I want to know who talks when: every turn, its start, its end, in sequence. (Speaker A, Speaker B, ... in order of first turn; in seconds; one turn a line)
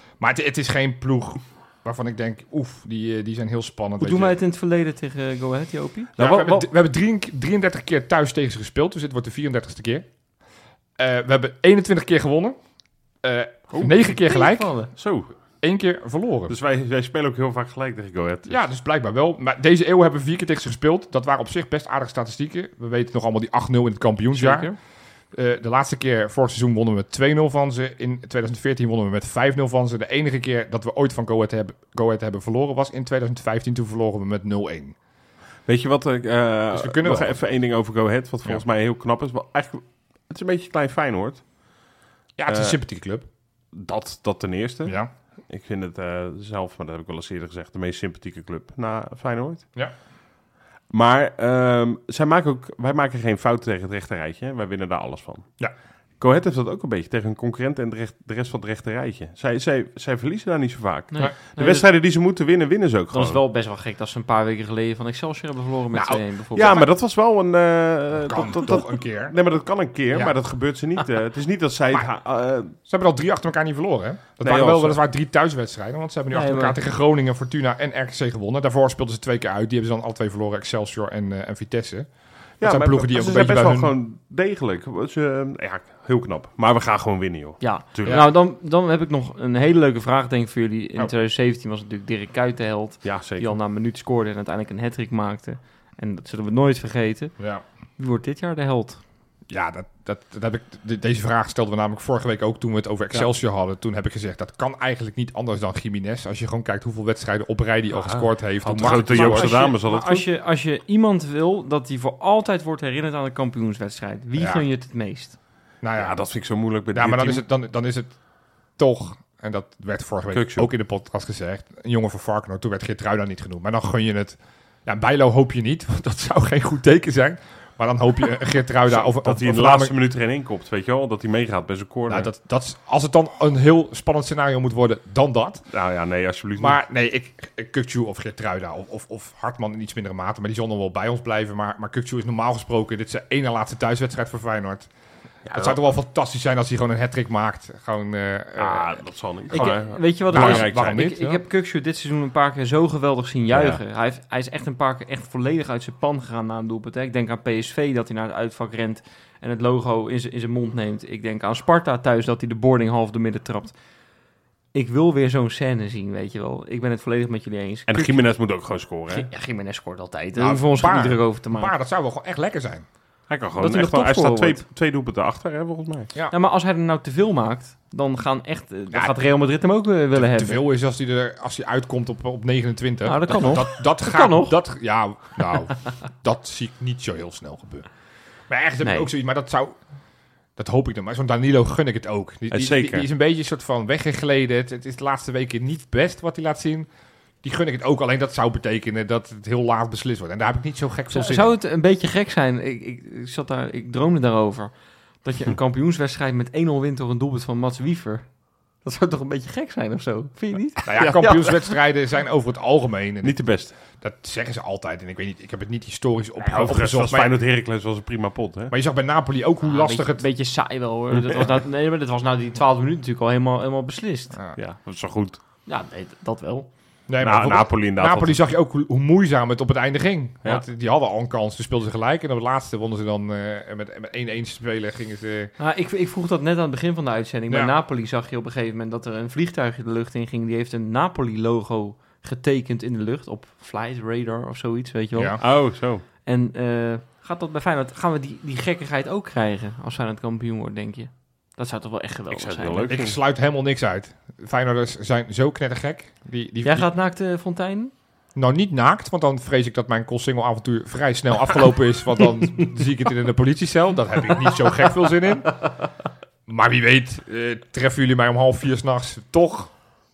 Speaker A: 0.2-4.3
Speaker B: 4.0-6.6
Speaker A: 6.2-10.1
Speaker A: 11.0-12.6
Speaker A: 13.2-14.7
Speaker C: 13.7-14.1
Speaker B: 14.2-14.9
Speaker C: 14.9-15.3
Speaker A: 15.6-16.6
Speaker C: 16.5-18.6
Speaker A: 18.5-24.7
Speaker B: 24.3-24.8
Speaker A: 25.3-35.0
Speaker C: 35.7-41.4
Speaker A: 36.7-37.4
Speaker A: 42.4-43.2
Speaker C: 42.5-42.8
Speaker C: 43.7-45.0
Speaker A: 44.8-45.1
Speaker C: 45.5-49.6
Speaker C: 50.9-55.5
Speaker C: 56.2-63.4
Speaker B: 61.1-61.9
Speaker B: 63.1-66.8
Speaker A: 65.9-66.9
Speaker C: 66.5-72.8
Speaker A: 68.2-69.3
Speaker A: 72.8-82.1
Speaker C: 74.4-75.0
Speaker B: 76.3-76.8
Speaker A: 82.6-83.9
Speaker C: 82.6-88.2
Speaker B: 87.6-97.3
Speaker C: 93.0-93.5
Speaker A: 97.4-97.6
Speaker B: 98.0-99.0
Speaker A: 99.5-109.6
Speaker C: 108.0-110.3
Speaker B: 108.8-115.4
Speaker A: 114.4-114.6
Speaker A: 115.8-116.2
Speaker C: 116.0-117.4
Speaker A: 116.9-118.1
Speaker A: 118.8-129.9
Speaker C: 120.3-120.7
Speaker C: 128.9-132.3
Speaker A: 132.1-135.6
Speaker C: 135.7-136.8
Speaker A: 136.6-144.9
Speaker C: 145.4-145.8
Speaker A: 145.5-149.0
Speaker C: 148.6-151.0
Speaker B: 149.5-163.7
Speaker A: 149.5-151.4
Speaker C: 153.5-153.8
Speaker B: 164.7-168.2
Speaker C: 167.9-169.3
Speaker B: 169.1-171.7
Speaker A: 170.3-172.8
Speaker C: 173.3-176.1
Speaker B: 173.6-174.6
Speaker B: 176.3-180.6
Speaker A: 180.1-187.9
Speaker B: 183.0-184.5
Speaker A: 188.5-189.8
Speaker B: 188.8-189.1
Speaker A: 190.6-196.9
Speaker C: 192.5-193.1
Speaker A: 197.4-201.5
Speaker B: 201.1-204.7
Speaker B: 205.2-208.2
Speaker B: 208.8-211.7
Speaker A: 210.8-213.4
Speaker C: 213.2-213.7
Speaker A: 213.9-217.3
Speaker C: 216.4-218.7
Speaker A: 218.7-220.2
Speaker B: 219.6-224.4
Speaker C: 221.1-221.5
Speaker C: 224.6-225.4
Speaker B: 225.7-226.7
Speaker A: 227.1-235.5
Speaker C: 227.2-228.4
Speaker B: 235.6-245.6
Speaker A: 245.2-245.4
Speaker C: 245.4-246.0
Speaker B: 246.2-252.9
Speaker C: 252.3-253.2
Speaker A: 252.9-256.9
Speaker B: 256.6-257.9
Speaker A: 258.3-265.6
Speaker A: 266.5-269.7